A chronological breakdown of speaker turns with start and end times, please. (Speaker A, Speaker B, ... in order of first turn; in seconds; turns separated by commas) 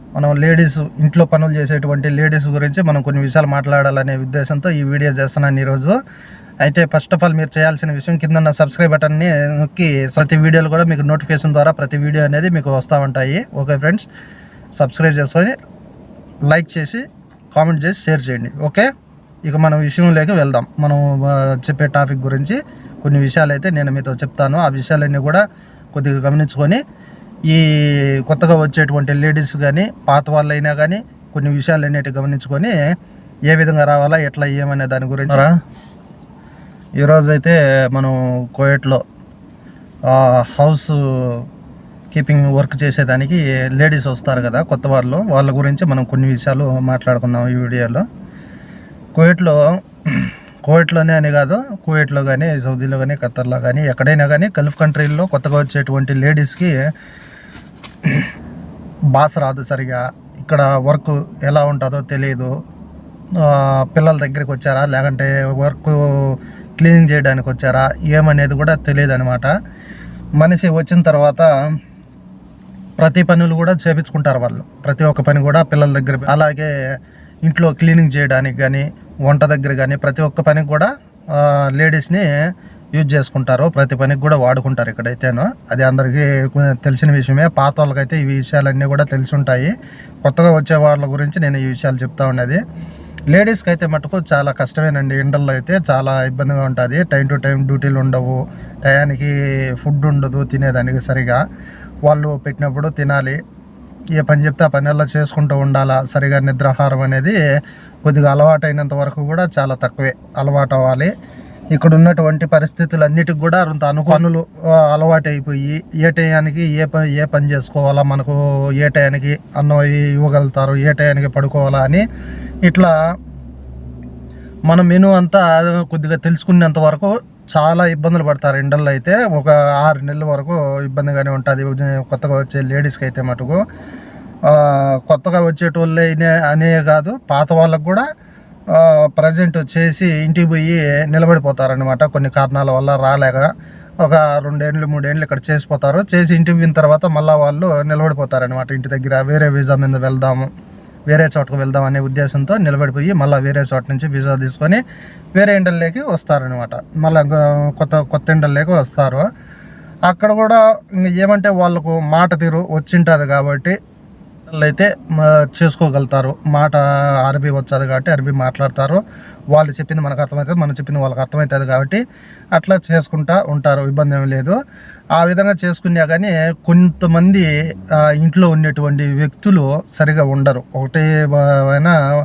Speaker A: 0.2-6.0, Speaker A: 6.6-14.1, Speaker A: 14.8-15.6, Speaker A: 16.5-18.9, Speaker A: 19.5-25.4, Speaker A: 25.9-26.8, Speaker A: 27.5-32.7, Speaker A: 33.5-35.5, Speaker A: 37.0-39.0, Speaker A: 40.1-41.5, Speaker A: 42.1-48.0, Speaker A: 49.1-56.8, Speaker A: 59.1-62.5, Speaker A: 63.4-69.5, Speaker A: 70.4-71.5, Speaker A: 73.0-76.7, Speaker A: 77.4-82.3, Speaker A: 82.9-89.7, Speaker A: 90.2-92.6, Speaker A: 93.3-101.4, Speaker A: 102.0-103.4, Speaker A: 104.2-107.3, Speaker A: 108.0-111.1, Speaker A: 111.7-122.0, Speaker A: 122.7-122.9, Speaker A: 124.7-133.6, Speaker A: 134.4-138.1, Speaker A: 138.7-143.5, Speaker A: 144.0-150.5, Speaker A: 151.1-154.8, Speaker A: 155.3-159.2, Speaker A: 160.1-163.8, Speaker A: 164.5-172.0, Speaker A: 172.5-174.6, Speaker A: 175.2-182.0